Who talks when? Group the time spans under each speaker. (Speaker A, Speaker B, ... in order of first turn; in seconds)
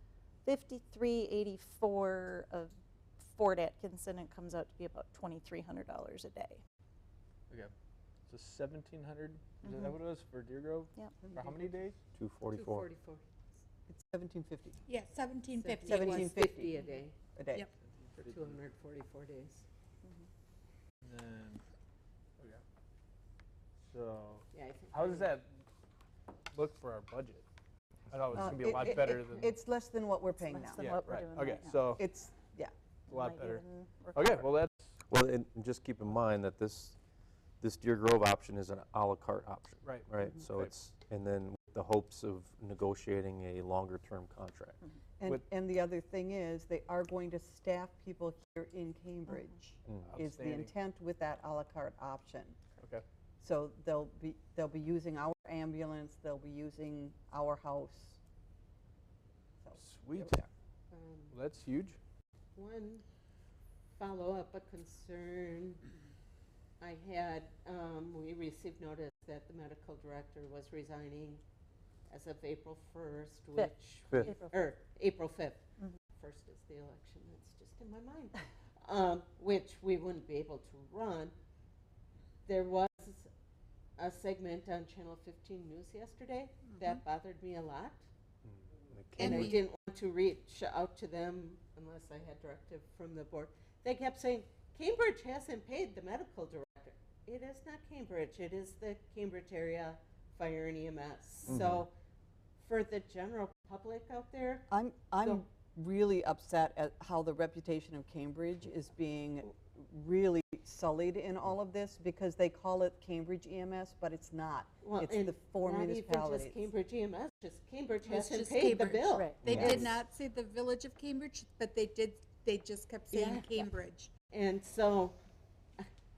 Speaker A: 0.4-6.6, 9.6-9.9, 30.4-31.8, 33.1-34.5, 73.5-74.5, 119.1-119.4
Speaker B: 8.3-12.0, 17.8-18.6, 21.0-21.6, 23.9-25.5, 26.5-27.4, 28.1-29.5, 30.8-32.0, 33.1-34.9, 39.8-40.7, 50.0-50.7, 59.8-60.5, 61.3-62.0
Speaker C: 11.2-11.8, 13.9-14.8, 15.8-16.8, 17.3-17.7, 28.3-30.9, 32.0-32.7, 45.2-52.6, 53.4-58.2, 104.7-116.7, 119.5-119.9
Speaker D: 12.1-12.9, 35.1-36.9, 37.6-44.8, 49.9-50.2, 88.4-89.6, 101.5-101.8, 119.4-119.9
Speaker E: 12.5-13.2, 15.8-17.2, 18.2-19.6, 24.5-25.3, 60.9-61.4, 62.5-63.0, 64.0-65.8, 66.8-71.4, 72.1-75.6, 76.2-81.3, 82.4-83.3, 84.0-88.0, 89.2-101.9, 102.6-105.4, 114.8-119.8, 123.1-123.7, 124.3-125.2
Speaker F: 14.9-16.4, 89.2-89.6, 118.0-124.1